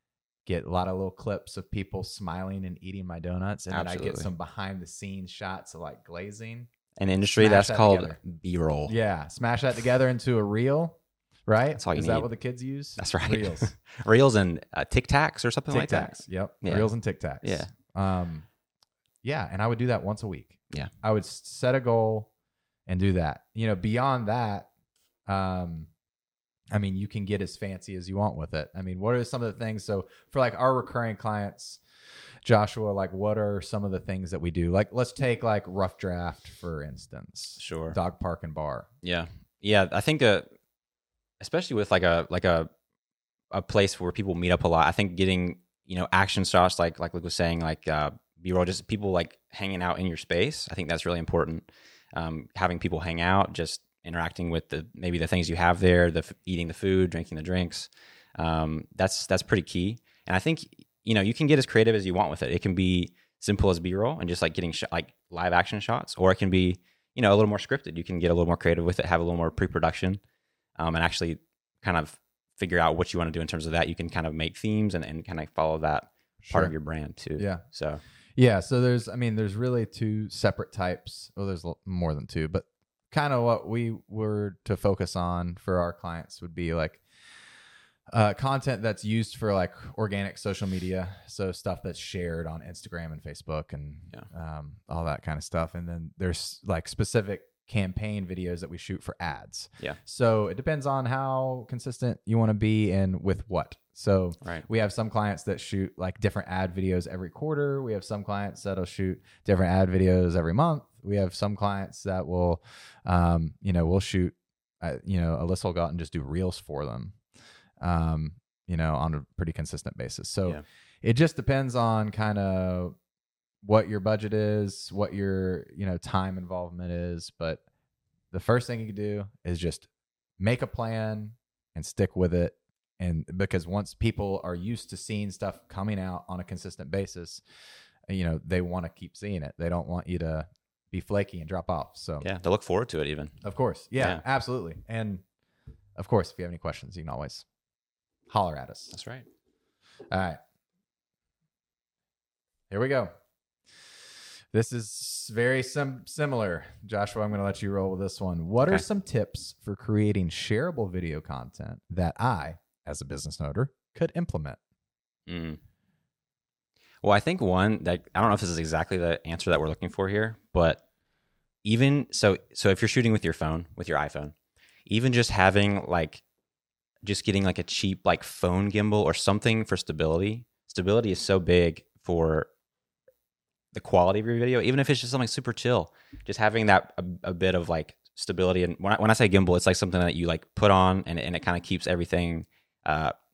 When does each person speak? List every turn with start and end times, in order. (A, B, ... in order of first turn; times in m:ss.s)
0:00.4-0:06.7 A
0:03.7-0:04.3 B
0:07.0-0:09.0 B
0:07.4-0:08.2 A
0:08.8-0:13.7 A
0:11.8-0:12.3 B
0:13.0-0:17.7 B
0:15.7-0:18.4 A
0:19.2-0:22.3 A
0:22.9-0:24.7 A
0:25.3-0:25.9 A
0:26.7-0:31.8 A
0:32.4-0:38.9 A
0:37.6-0:38.0 B
0:39.0-0:40.5 B
0:41.4-0:42.7 B
0:43.5-1:10.2 B
1:10.8-1:18.0 B
1:16.4-1:16.7 A
1:17.4-1:17.6 A
1:18.4-1:27.0 A
1:28.1-1:57.2 A
1:57.8-2:03.0 A
2:03.6-2:07.6 A
2:08.3-2:09.9 A
2:10.4-2:17.4 A
2:18.1-2:22.3 A
2:22.2-2:23.4 B
2:23.4-2:25.2 A
2:24.0-2:24.2 B
2:26.0-2:27.4 A
2:28.3-2:28.9 A
2:28.9-2:29.2 B
2:30.1-2:30.4 A
2:32.7-2:33.1 A
2:34.5-2:44.6 A
2:45.3-2:45.6 B
2:47.0-2:50.8 B
2:51.6-2:54.3 B
2:54.9-2:56.2 B
2:57.0-3:02.5 B
3:03.7-3:13.1 B